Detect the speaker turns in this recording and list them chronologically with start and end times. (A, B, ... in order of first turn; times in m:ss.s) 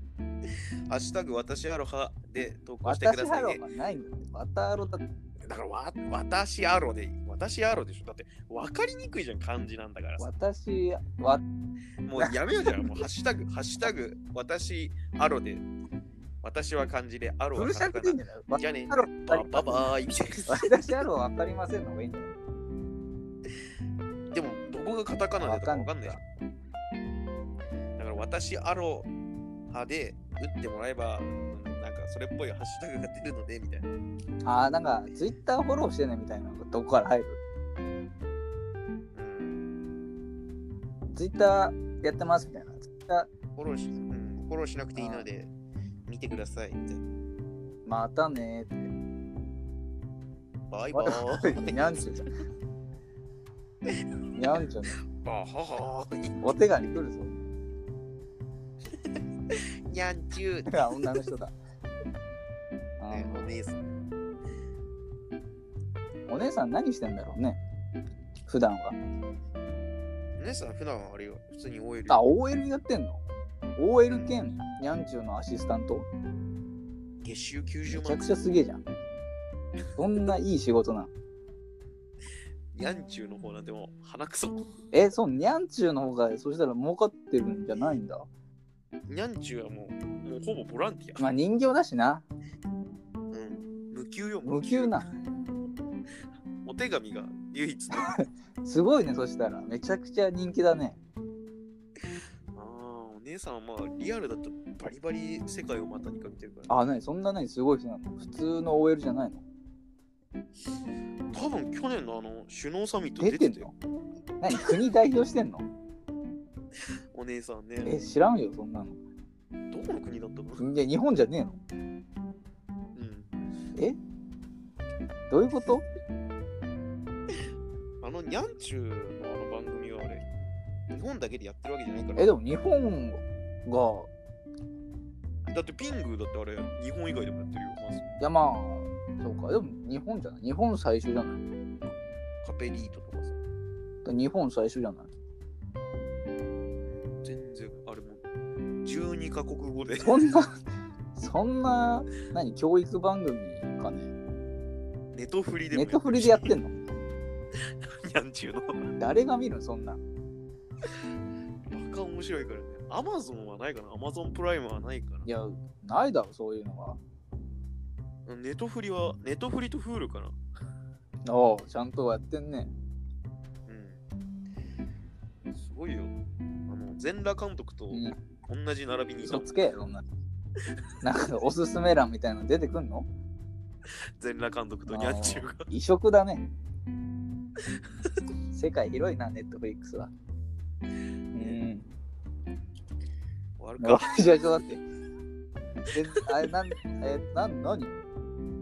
0:00.9-0:03.6 A
0:02.8-0:05.0 B
0:05.5-0:10.3 A
0:10.2-0:11.4 B
0:12.0-0:15.6 A
0:12.2-0:13.0 B
0:16.4-0:20.7 A
0:17.6-0:19.9 B
0:20.5-0:22.3 B
0:24.3-0:26.2 A
0:25.4-0:26.2 B
0:28.0-0:29.1 A
0:29.7-0:33.9 A
0:34.4-0:37.4 B
0:39.2-0:39.6 A
0:41.1-0:43.3 B
0:43.6-0:45.5 A
0:45.0-0:45.3 B
0:46.1-0:47.0 A
0:47.8-0:48.9 B
0:50.7-0:52.0 A
0:50.9-0:52.3 B
0:54.4-0:55.0 B
0:55.2-0:56.4 A
0:56.4-0:57.3 B
0:59.0-0:59.2 A
0:59.9-1:01.2 A
1:00.7-1:01.6 B
1:03.0-1:03.6 B
1:03.1-1:03.9 A
1:06.3-1:07.6 B
1:08.5-1:09.0 B
1:10.4-1:12.2 A
1:12.1-1:13.2 B
1:13.8-1:16.1 B
1:17.2-1:18.3 A
1:17.9-1:18.8 B
1:20.0-1:21.1 B
1:22.7-1:24.7 A
1:24.9-1:28.3 B
1:29.1-1:31.2 A
1:31.2-1:32.3 B
1:33.3-1:35.0 A
1:34.4-1:35.1 B
1:36.6-1:38.2 A
1:37.9-1:41.0 B
1:42.0-1:46.8 A
1:46.7-1:49.4 B
1:51.3-1:53.7 A
1:53.2-1:53.7 B
1:54.4-1:55.7 B
1:57.1-1:58.0 A
1:57.8-1:59.0 B
1:59.7-2:00.7 A
2:00.6-2:01.6 B
2:03.0-2:03.3 A
2:05.3-2:05.8 B
2:08.0-2:10.2 A
2:10.9-2:12.3 A
2:12.2-2:14.1 B
2:15.5-2:18.0 A
2:18.2-2:21.4 B
2:22.4-2:23.4 A
2:24.0-2:25.1 B
2:26.8-2:28.2 A
2:28.8-2:30.2 A
2:30.0-2:30.6 B
2:31.2-2:34.1 B
2:35.1-2:36.6 A
2:35.7-2:36.7 B
2:38.1-2:38.9 A
2:39.0-2:40.0 B
2:41.7-2:45.3 A
2:45.2-2:47.0 B
2:48.3-2:50.4 A
2:51.3-2:52.7 B
2:53.7-2:54.0 A
2:55.5-2:56.2 A
2:56.7-2:59.5 A
2:57.9-2:58.2 B
2:59.2-3:00.0 B
3:01.0-3:03.1 B
3:04.2-3:05.7 A
3:04.9-3:06.5 B
3:08.5-3:10.1 B
3:11.4-3:11.9 B
3:13.6-3:14.5 A
3:13.8-3:14.8 B
3:15.9-3:18.0 B